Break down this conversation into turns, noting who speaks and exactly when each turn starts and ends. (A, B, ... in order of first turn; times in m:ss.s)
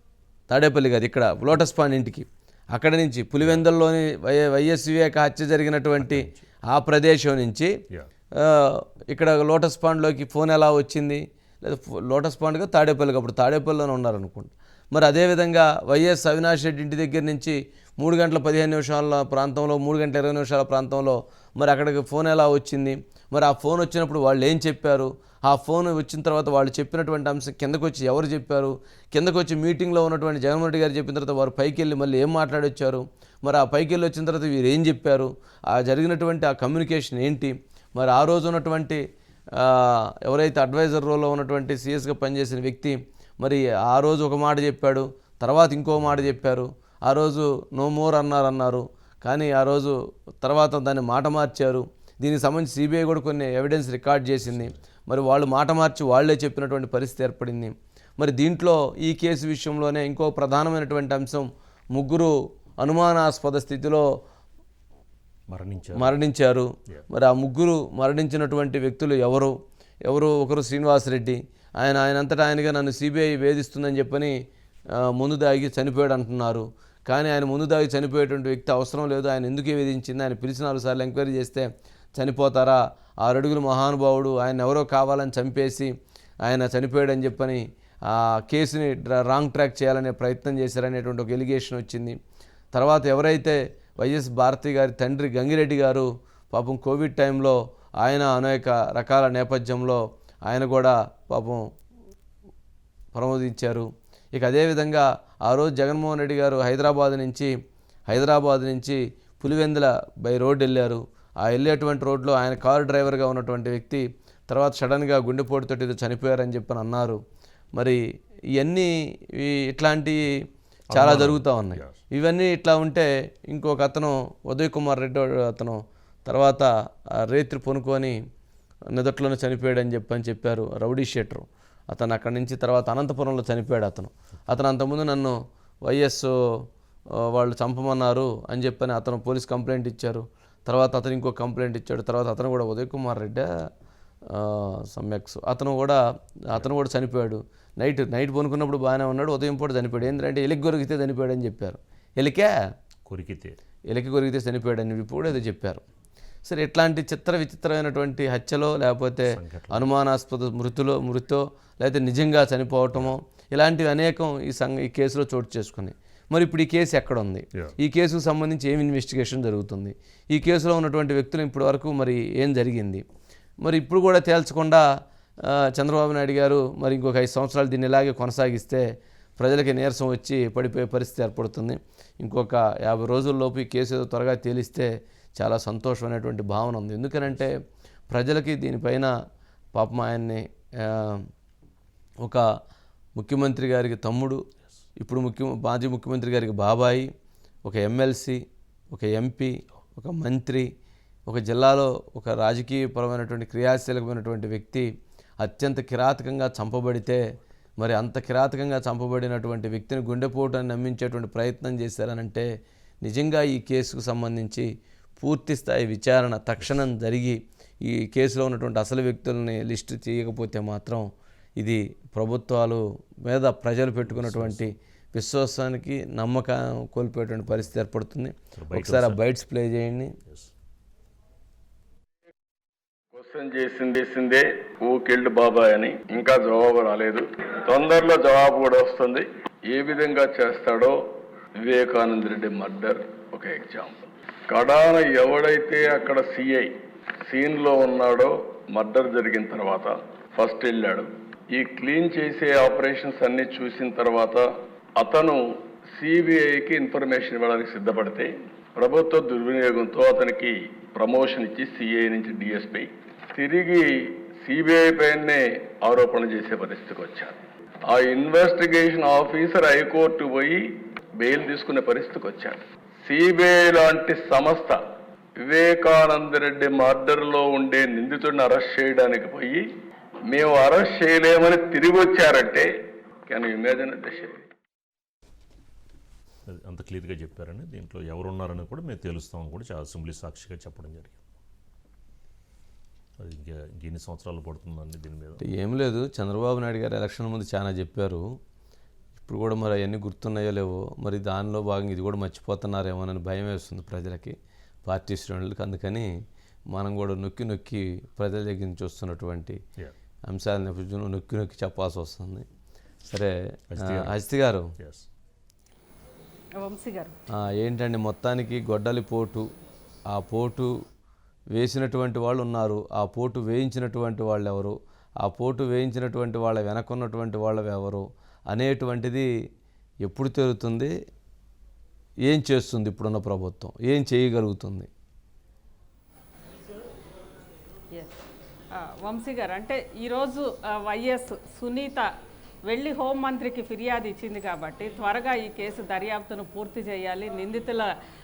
0:00.5-0:07.7 A
0:03.4-0:03.7 B
0:06.0-0:06.4 B
0:08.4-0:39.0 A
0:39.6-1:04.1 A
0:46.0-0:46.3 B
0:54.4-0:54.8 B
1:05.5-1:06.1 B
1:06.0-1:09.5 A
1:10.0-1:14.4 A
1:14.9-1:25.9 A
1:26.4-1:32.2 A
1:32.7-1:41.6 A
1:43.1-1:47.5 A
1:48.1-1:57.2 A
1:57.8-1:58.0 A
1:58.6-2:06.7 A
2:00.9-2:02.0 B
2:07.2-2:08.2 A
2:08.9-2:16.7 A
2:17.2-2:23.6 A
2:24.3-2:32.6 A
2:33.1-2:33.6 B
2:33.9-2:35.8 A
2:36.4-2:53.0 A
2:39.3-2:39.9 B
2:53.6-2:54.9 A
2:55.4-2:58.9 A
2:59.4-3:07.6 A
3:08.1-3:09.1 A
3:09.8-3:11.3 A
3:13.2-3:14.4 A
3:15.0-3:17.1 A
3:17.6-3:20.7 A
3:21.3-3:24.9 A
3:25.4-3:27.2 A
3:27.8-3:32.5 A
3:33.0-3:34.7 A
3:35.2-3:41.1 A
3:41.6-3:50.2 A
3:44.1-3:44.7 B
3:48.6-3:49.2 B
3:50.3-3:50.5 B
3:53.1-4:01.0 C
4:01.6-4:34.8 C
4:35.4-4:39.7 C
4:40.3-4:42.7 C
4:43.3-4:44.5 C
4:46.5-4:51.2 B
4:53.2-4:55.4 B
4:55.4-4:58.3 A
4:59.2-5:06.1 A
5:06.7-5:09.6 A
5:10.3-5:12.5 A
5:13.1-5:14.7 A
5:13.7-5:14.2 B
5:14.8-5:15.1 B
5:16.6-5:17.1 D
5:17.3-5:19.5 A
5:20.1-5:20.8 A
5:21.5-5:29.3 A
5:30.0-5:30.9 A
5:32.2-5:34.9 A
5:37.9-5:38.2 D
5:38.7-5:42.1 D
5:42.7-5:47.9 D